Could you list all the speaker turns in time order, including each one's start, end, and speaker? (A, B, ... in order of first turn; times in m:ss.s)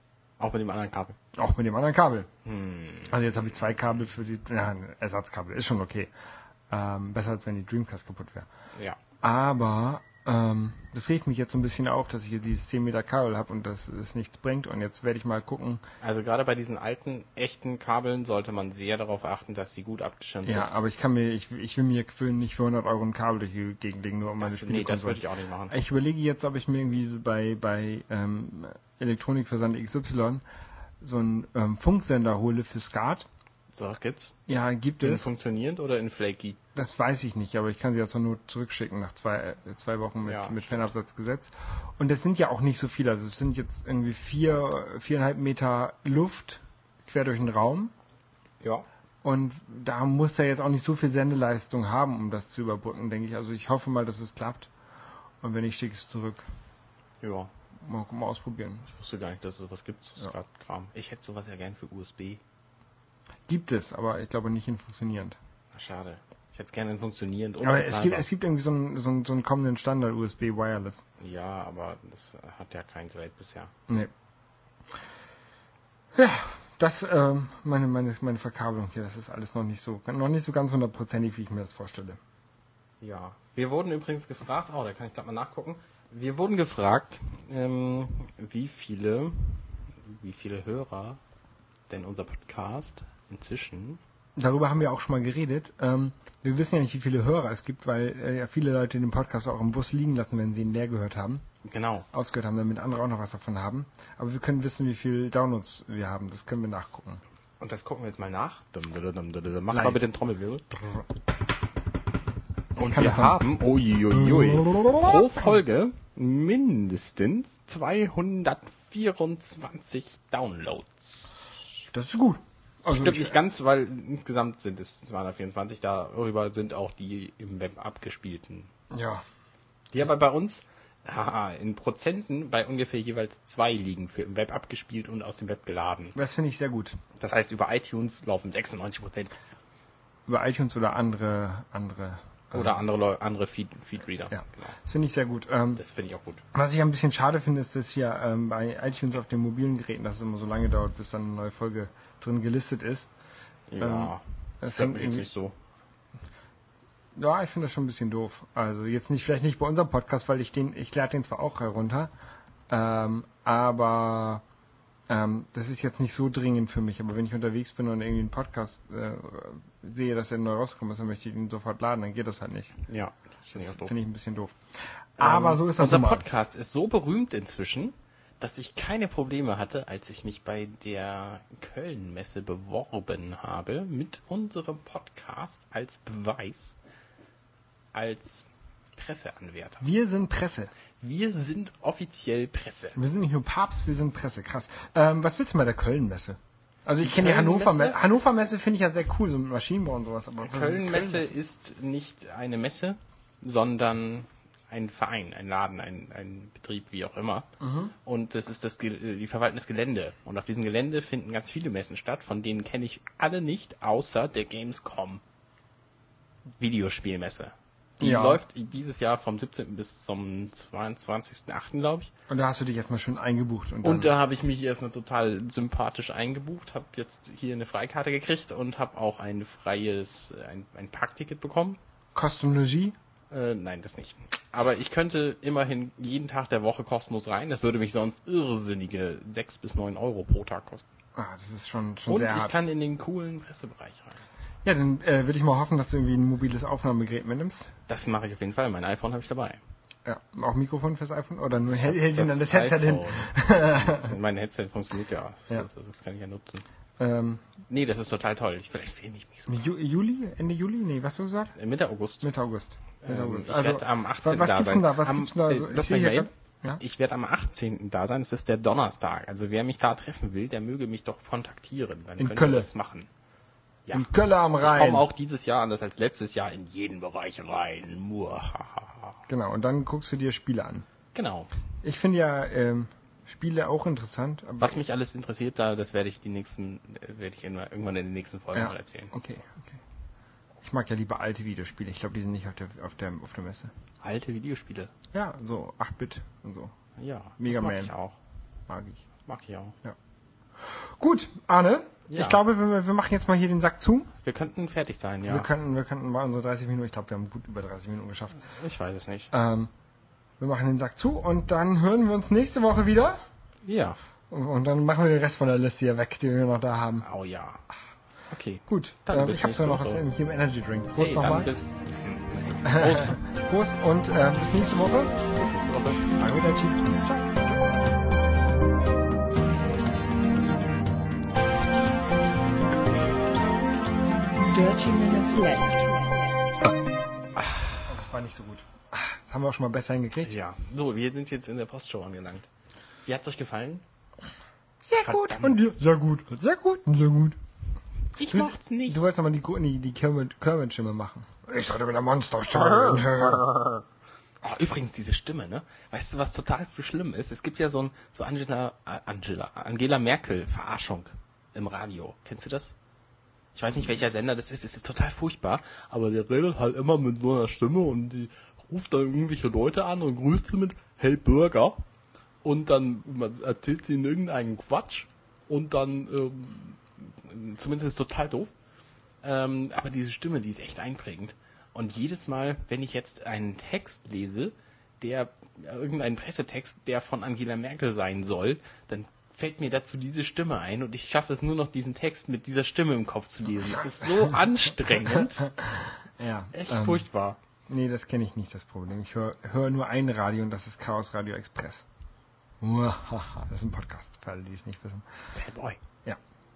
0:00.4-0:01.2 A
0:01.4-0:02.3 B
0:02.4-0:03.1 A
0:03.1-0:06.1 B
0:06.7-0:08.5 B
0:09.2-0:15.8 B
0:16.0-0:20.7 A
0:20.4-0:30.4 B
0:24.4-0:25.7 A
0:31.0-0:33.3 B
0:33.7-0:34.4 A
0:34.5-0:35.3 B
0:35.0-0:36.6 A
0:36.7-0:47.9 B
0:40.2-0:40.9 A
0:49.2-0:54.7 B
0:55.4-0:56.4 B
0:57.2-0:57.5 A
0:57.8-0:58.9 B
0:58.9-1:02.4 A
1:03.5-1:05.4 B
1:05.7-1:08.3 A
1:07.6-1:11.0 B
1:11.2-1:13.7 A
1:16.1-1:22.2 B
1:23.0-1:31.2 A
1:31.9-1:34.0 A
1:34.4-1:41.4 B
1:41.6-1:42.1 A
1:42.1-1:47.2 B
1:47.6-1:50.9 A
1:49.7-1:50.0 B
1:52.8-2:01.4 A
1:52.8-1:53.5 B
1:54.1-1:55.5 B
2:01.9-2:03.4 B
2:02.9-2:08.7 A
2:08.9-2:09.2 B
2:09.9-2:16.2 A
2:16.1-2:17.0 B
2:17.2-2:19.4 A
2:20.3-2:22.8 B
2:22.5-2:24.8 A
2:24.3-2:25.8 B
2:25.8-2:26.4 A
2:26.5-2:33.1 B
2:33.7-2:35.5 A
2:33.8-2:35.3 B
2:37.1-2:42.1 B
2:42.7-2:44.4 B
2:45.1-2:52.8 B
2:52.8-2:53.9 A
2:53.5-2:54.6 B
2:55.2-2:56.2 B
2:55.2-3:06.8 A
3:07.9-3:09.8 A
3:09.8-3:10.7 B
3:11.0-3:13.0 A
3:13.0-3:21.3 B
3:17.0-3:18.0 A
3:20.4-3:27.5 A
3:27.6-3:27.9 B
3:28.0-3:35.2 A
3:36.6-3:42.1 A
3:38.0-3:38.4 B
3:42.3-3:44.1 B
3:43.8-3:51.8 A
3:52.1-3:53.0 B
3:53.3-4:00.8 A
4:01.2-4:02.5 B
4:02.1-4:04.2 A
4:04.6-4:07.7 B
4:07.9-4:09.6 A
4:10.0-4:14.1 B
4:11.7-4:16.6 A
4:17.0-4:17.5 B
4:17.7-4:19.6 A
4:19.5-4:21.5 B
4:21.6-4:22.3 A
4:22.2-4:26.8 B
4:23.0-4:33.1 A
4:32.2-4:32.7 B
4:33.9-4:39.2 A
4:33.9-4:35.1 B
4:39.3-4:40.8 B
4:41.1-4:41.5 A
4:41.8-4:44.8 B
4:44.6-4:49.1 A
4:48.5-4:49.8 B
4:50.6-4:53.7 B
4:54.0-4:54.9 A
4:55.1-4:56.7 B
4:57.0-4:58.2 A
4:57.4-4:57.9 B
4:58.7-4:59.0 B
4:59.3-4:59.8 A
5:00.7-5:04.1 B
5:02.1-5:02.4 A
5:04.2-5:05.5 A
5:05.3-5:08.4 B
5:08.5-5:09.3 A
5:09.3-5:09.7 B
5:10.4-5:13.2 B
5:13.6-5:14.0 A
5:14.3-5:17.1 B
5:17.0-5:17.6 A
5:18.3-5:20.0 A
5:18.7-5:21.6 B
5:20.9-5:23.2 A
5:22.6-5:25.1 B
5:25.3-5:26.1 A
5:26.2-5:27.4 B
5:34.4-5:36.5 C
5:37.4-5:37.7 A
5:37.8-5:40.3 B
5:40.2-5:42.5 A
5:43.0-5:43.8 A
5:44.8-5:47.4 B
5:45.0-5:45.6 A
5:48.2-5:49.0 A
5:48.3-5:53.5 B
5:52.5-5:53.8 A
5:54.4-6:02.8 A
6:03.5-6:11.8 A
6:12.4-6:18.5 A
6:19.2-6:35.5 A
6:33.6-6:34.4 B
6:34.9-6:37.0 B
6:36.5-6:37.4 A
6:37.7-6:41.8 B
6:42.6-6:45.0 B
6:45.3-6:45.8 A